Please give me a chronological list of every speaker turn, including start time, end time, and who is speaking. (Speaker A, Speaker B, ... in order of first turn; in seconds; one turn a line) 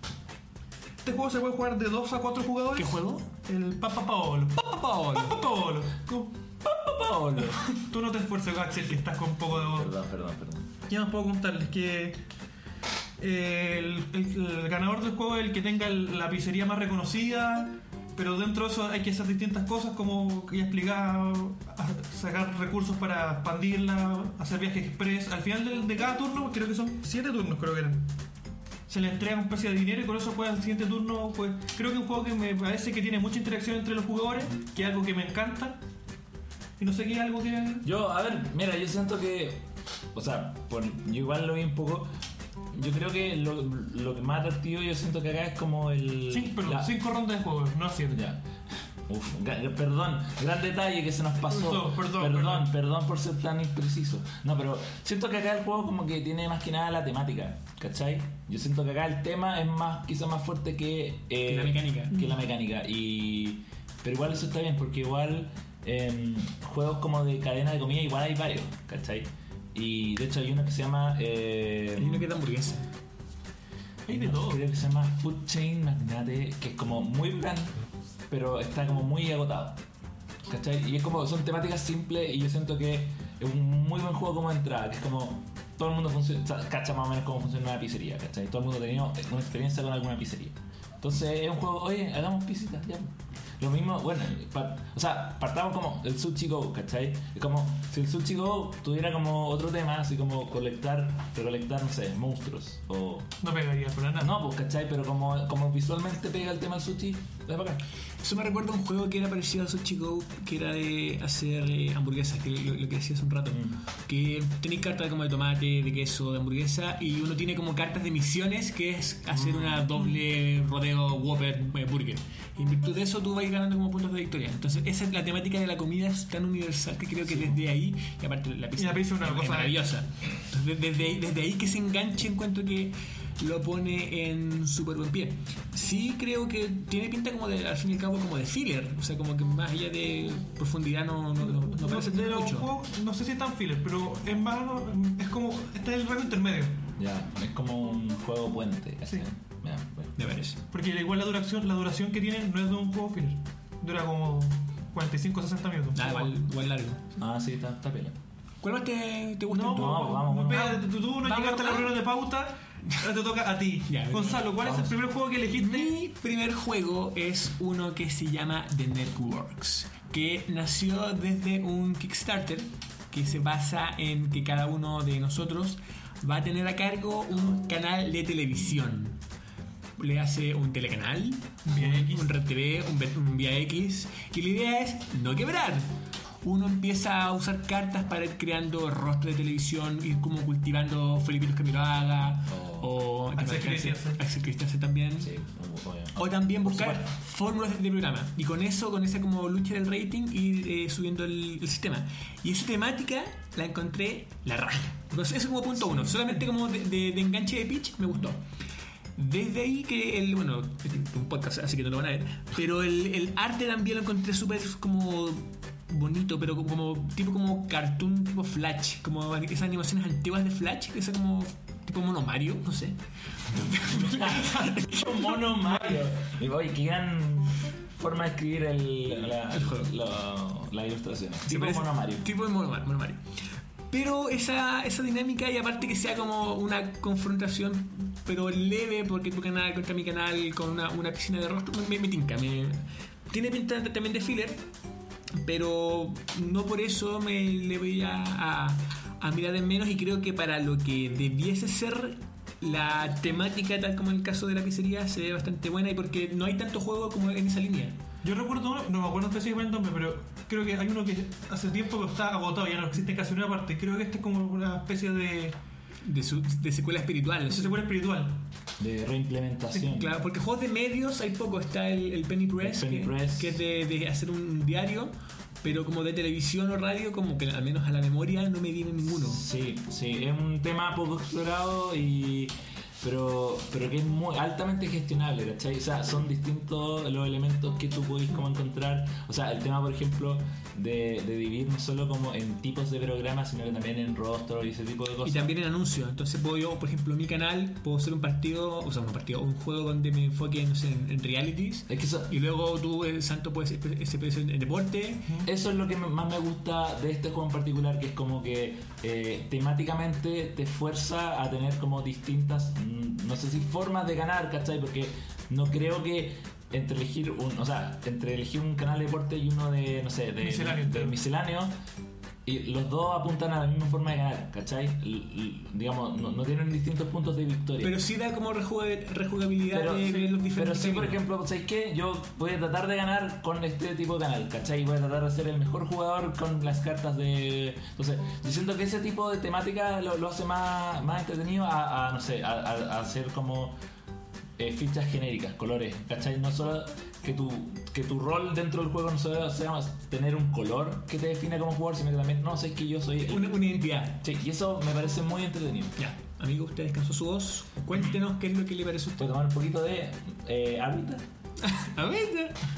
Speaker A: 1.0-6.3
Speaker B: 2.8-3.3
Speaker B: 4.6-5.4
Speaker C: 6.6-7.7
Speaker A: 7.7-9.9
Speaker C: 9.5-10.7
Speaker A: 10.9-12.2
Speaker A: 13.2-28.1
Speaker A: 28.9-35.8
Speaker A: 36.8-37.9
Speaker C: 37.8-42.1
Speaker C: 42.7-46.9
Speaker A: 46.3-48.2
Speaker C: 48.1-48.5
Speaker C: 49.1-72.3
Speaker A: 51.5-52.7
Speaker B: 61.5-62.1
Speaker B: 72.0-72.9
Speaker A: 74.1-74.6
Speaker C: 74.1-77.8
Speaker C: 78.3-79.8
Speaker C: 80.5-103.3
Speaker A: 103.4-104.3
Speaker C: 104.2-107.8
Speaker B: 108.2-142.7
Speaker C: 113.5-113.8
Speaker C: 119.3-119.9
Speaker A: 128.8-129.8
Speaker A: 141.4-146.8
Speaker C: 147.0-150.1
Speaker B: 150.2-150.6
Speaker A: 150.7-156.4
Speaker B: 155.9-157.0
Speaker C: 157.2-158.2
Speaker B: 158.6-162.0
Speaker A: 159.5-165.9
Speaker C: 159.7-160.8
Speaker B: 163.9-164.5
Speaker C: 164.6-164.9
Speaker B: 165.6-179.2
Speaker B: 180.0-195.3
Speaker A: 181.7-182.3
Speaker C: 192.5-192.9
Speaker A: 193.3-194.2
Speaker C: 195.2-197.1
Speaker B: 196.2-208.4
Speaker B: 209.2-225.3
Speaker C: 223.7-232.3
Speaker A: 225.7-226.0
Speaker B: 229.4-229.9
Speaker B: 231.5-244.6
Speaker B: 245.3-258.0
Speaker A: 258.2-265.6
Speaker B: 266.0-267.8
Speaker A: 267.5-268.4
Speaker C: 268.8-270.1
Speaker B: 269.9-279.4
Speaker C: 272.6-273.6
Speaker C: 279.1-295.5
Speaker B: 295.2-305.3
Speaker C: 301.9-302.3
Speaker C: 305.4-321.7
Speaker A: 320.4-321.2
Speaker C: 322.4-327.9
Speaker B: 327.8-331.2
Speaker C: 329.7-343.8
Speaker C: 344.6-356.0
Speaker B: 353.2-354.2
Speaker B: 356.0-359.3
Speaker C: 359.2-361.2
Speaker B: 361.6-362.6